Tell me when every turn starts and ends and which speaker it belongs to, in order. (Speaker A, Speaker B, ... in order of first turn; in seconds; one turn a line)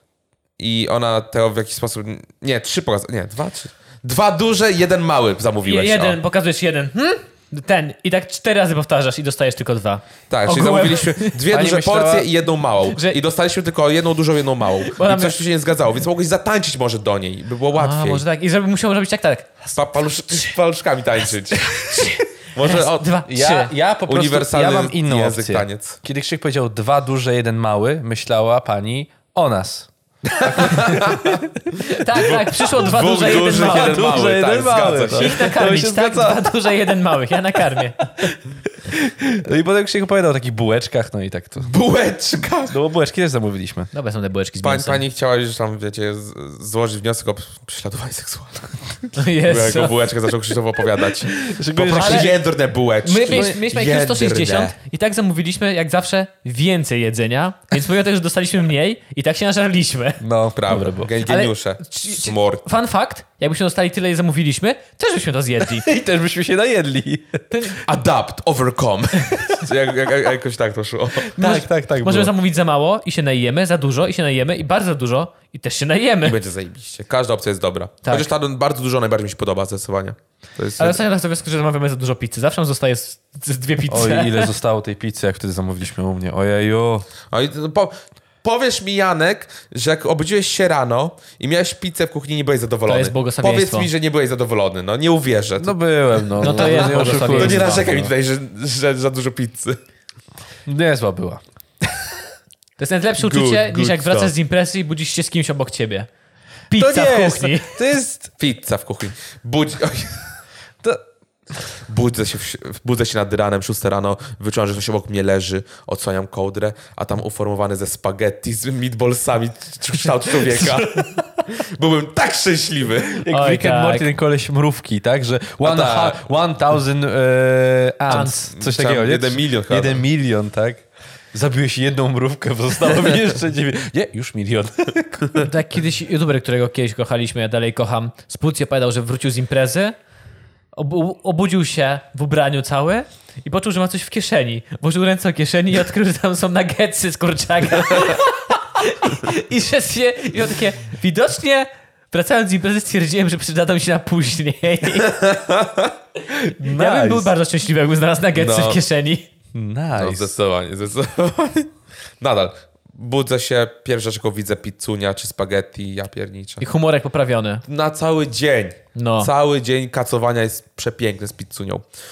Speaker A: 0.6-6.2
Speaker B: 5.6-11.4
Speaker A: 10.3-18.2
Speaker C: 11.5-12.3
Speaker B: 12.9-13.2
Speaker B: 14.8-15.4
Speaker B: 17.7-20.5
Speaker A: 19.7-23.2
Speaker B: 21.6-23.7
Speaker C: 23.3-29.9
Speaker A: 24.1-26.0
Speaker A: 30.3-31.4
Speaker C: 30.5-31.0
Speaker B: 31.7-34.4
Speaker A: 32.2-35.4
Speaker C: 33.3-36.5
Speaker B: 35.1-38.1
Speaker C: 38.8-41.7
Speaker A: 41.6-42.7
Speaker C: 42.7-43.9
Speaker B: 43.9-45.0
Speaker A: 44.6-54.7
Speaker B: 49.1-50.1
Speaker C: 51.4-52.4
Speaker B: 52.0-52.3
Speaker B: 53.0-60.2
Speaker C: 53.3-53.6
Speaker C: 60.2-61.1
Speaker A: 60.5-62.6
Speaker B: 61.2-65.8
Speaker C: 65.7-67.7
Speaker B: 67.5-67.8
Speaker A: 67.8-71.3
Speaker C: 71.3-72.3
Speaker B: 71.4-76.4
Speaker A: 76.2-81.0
Speaker B: 80.8-84.5
Speaker C: 83.9-87.1
Speaker A: 87.3-95.7
Speaker B: 92.9-93.9
Speaker C: 95.6-98.1
Speaker A: 96.3-99.8
Speaker B: 96.4-97.9
Speaker C: 100.7-101.4
Speaker B: 102.8-106.1
Speaker A: 103.2-104.3
Speaker B: 106.7-107.8
Speaker C: 106.7-108.3
Speaker A: 108.4-110.2
Speaker A: 111.8-123.2
Speaker C: 123.1-135.5
Speaker B: 123.3-124.1
Speaker A: 125.6-126.2
Speaker B: 128.0-128.5
Speaker A: 128.1-130.0
Speaker B: 135.4-139.9
Speaker B: 140.7-155.2
Speaker A: 155.0-155.9
Speaker C: 156.6-157.3
Speaker B: 156.6-159.3
Speaker A: 158.3-158.8
Speaker C: 159.5-160.3
Speaker A: 160.0-166.6
Speaker B: 166.6-167.6
Speaker A: 167.7-171.8
Speaker B: 168.9-169.3